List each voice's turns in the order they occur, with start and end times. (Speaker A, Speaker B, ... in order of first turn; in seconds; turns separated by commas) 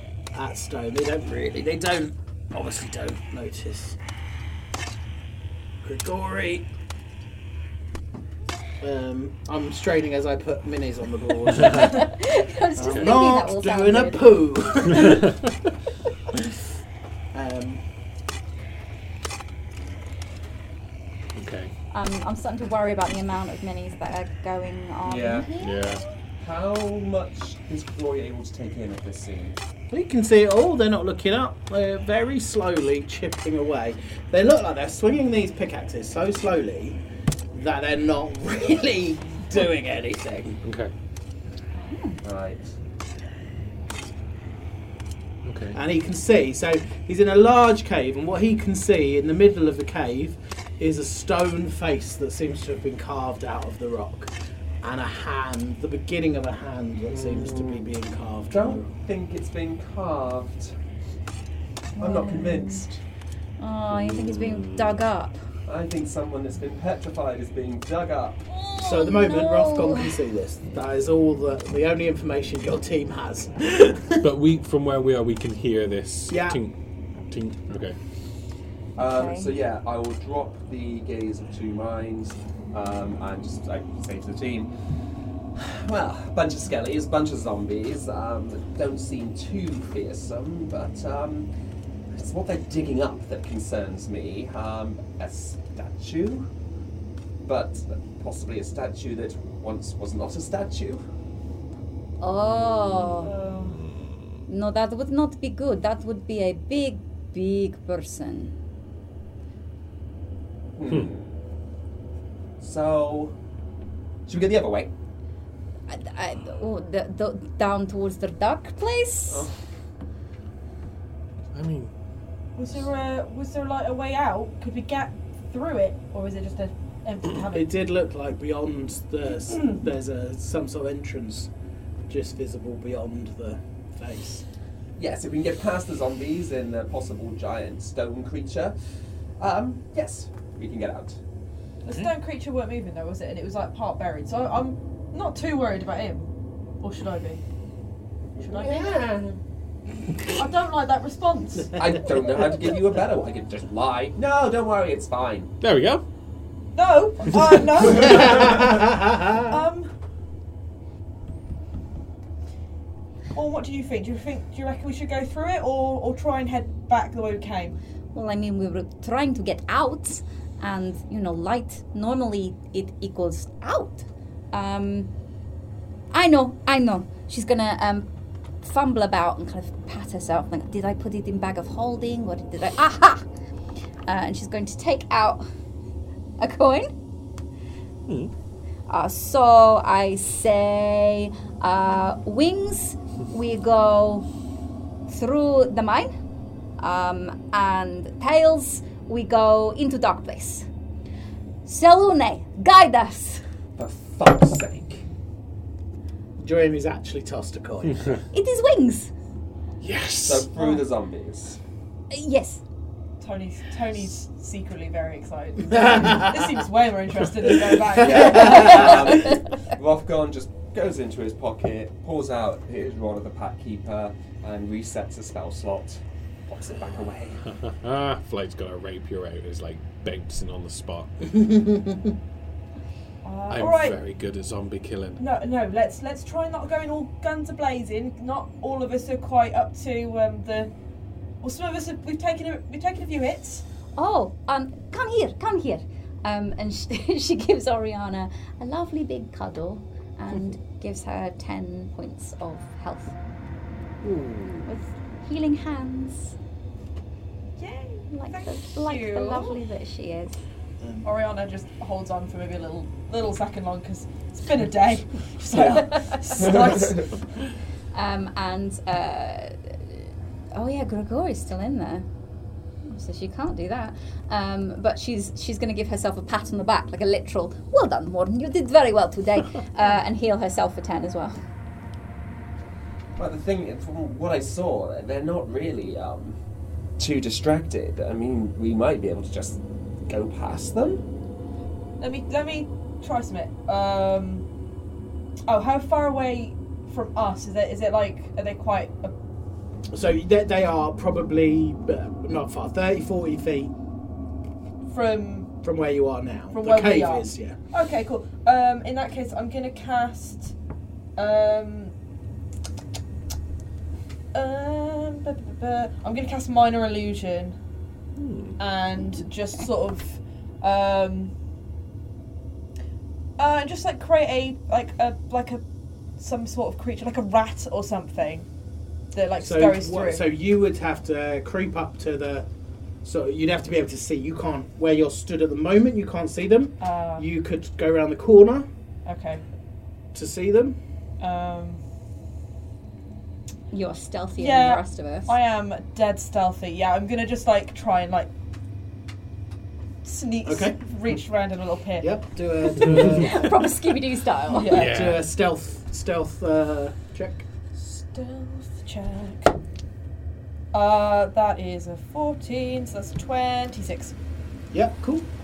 Speaker A: 0.3-4.0, Speaker A: 5.8-6.7, Speaker A: 8.8-12.1, Speaker B: 11.7-14.3, Speaker A: 12.8-15.3, Speaker A: 17.3-17.8, Speaker C: 21.4-21.7, Speaker B: 21.9-26.1, Speaker D: 25.1-25.6, Speaker C: 25.6-26.1, Speaker D: 26.4-29.6, Speaker A: 29.9-37.0, Speaker A: 37.5-40.6, Speaker C: 40.6-40.9, Speaker B: 41.8-42.2, Speaker D: 42.2-42.7, Speaker C: 45.5-45.8, Speaker A: 45.7-58.9, Speaker D: 58.5-60.8, Speaker B: 62.0-62.9, Speaker D: 62.0-63.0, Speaker B: 63.6-65.4, Speaker C: 63.9-64.9, Speaker D: 65.7-68.4, Speaker B: 68.5-70.2, Speaker A: 68.8-74.3, Speaker C: 74.2-76.8, Speaker A: 76.3-76.6, Speaker C: 77.3-78.0, Speaker D: 79.0-84.7, Speaker B: 79.0-79.5, Speaker D: 85.5-91.5, Speaker D: 92.1-96.5, Speaker D: 97.4-101.0, Speaker B: 102.2-103.4, Speaker C: 103.2-104.2, Speaker E: 103.2-103.8, Speaker B: 104.5-108.5, Speaker D: 110.8-111.3, Speaker D: 112.6-113.3, Speaker D: 114.3-114.9, Speaker B: 115.9-119.5, Speaker C: 121.5-121.9, Speaker E: 122.6-127.7, Speaker A: 127.5-131.5, Speaker A: 132.1-134.4, Speaker D: 135.0-138.8, Speaker D: 139.4-141.2, Speaker E: 141.8-146.3, Speaker E: 146.8-147.4, Speaker D: 148.4-149.4, Speaker E: 148.4-149.0, Speaker E: 150.3-151.9, Speaker D: 151.7-155.5, Speaker C: 155.6-156.0, Speaker E: 156.8-159.9, Speaker A: 158.4-159.4, Speaker E: 163.3-167.8, Speaker B: 168.1-175.1, Speaker B: 176.1-178.1, Speaker B: 178.6-183.2, Speaker B: 184.1-185.5, Speaker B: 186.4-186.9, Speaker B: 188.9-194.3, Speaker B: 195.1-196.1, Speaker B: 196.8-200.7, Speaker B: 201.7-203.4, Speaker D: 203.8-205.0, Speaker A: 206.4-208.2, Speaker B: 208.3-209.1, Speaker C: 209.8-210.5, Speaker D: 210.2-211.6, Speaker B: 212.1-212.6, Speaker E: 213.2-219.3, Speaker A: 215.8-216.3, Speaker D: 217.9-227.4, Speaker A: 218.2-218.9, Speaker C: 227.5-231.4, Speaker A: 231.5-231.9, Speaker E: 233.2-234.0, Speaker C: 233.5-235.2, Speaker E: 235.2-240.7, Speaker E: 241.4-243.6, Speaker B: 244.0-253.2, Speaker C: 254.0-254.6, Speaker B: 254.5-256.4, Speaker E: 257.6-259.6, Speaker B: 258.1-260.4, Speaker E: 261.0-267.2, Speaker D: 266.4-267.1, Speaker B: 267.9-272.1, Speaker B: 272.9-281.4, Speaker D: 283.2-286.4, Speaker D: 287.0-291.0, Speaker E: 292.0-294.5, Speaker E: 295.5-299.1, Speaker A: 299.9-303.7, Speaker E: 304.9-305.5, Speaker A: 305.6-307.6, Speaker E: 306.5-310.5, Speaker E: 311.2-311.9, Speaker E: 314.3-317.6, Speaker C: 318.2-318.6, Speaker E: 318.6-321.3, Speaker E: 323.4-325.6, Speaker E: 326.2-328.5, Speaker E: 329.1-330.3, Speaker A: 329.4-332.5, Speaker A: 333.0-338.7, Speaker E: 336.8-337.2, Speaker E: 339.1-339.4, Speaker A: 340.1-340.8, Speaker E: 341.2-341.8, Speaker B: 343.7-345.3, Speaker E: 344.4-348.3, Speaker E: 350.0-352.1, Speaker A: 350.5-350.8, Speaker A: 352.0-353.5, Speaker B: 352.9-354.7, Speaker C: 352.9-353.2, Speaker E: 354.6-354.9, Speaker C: 354.7-355.2, Speaker A: 354.7-357.4, Speaker E: 357.8-359.6, Speaker E: 360.7-364.1, Speaker A: 364.7-365.3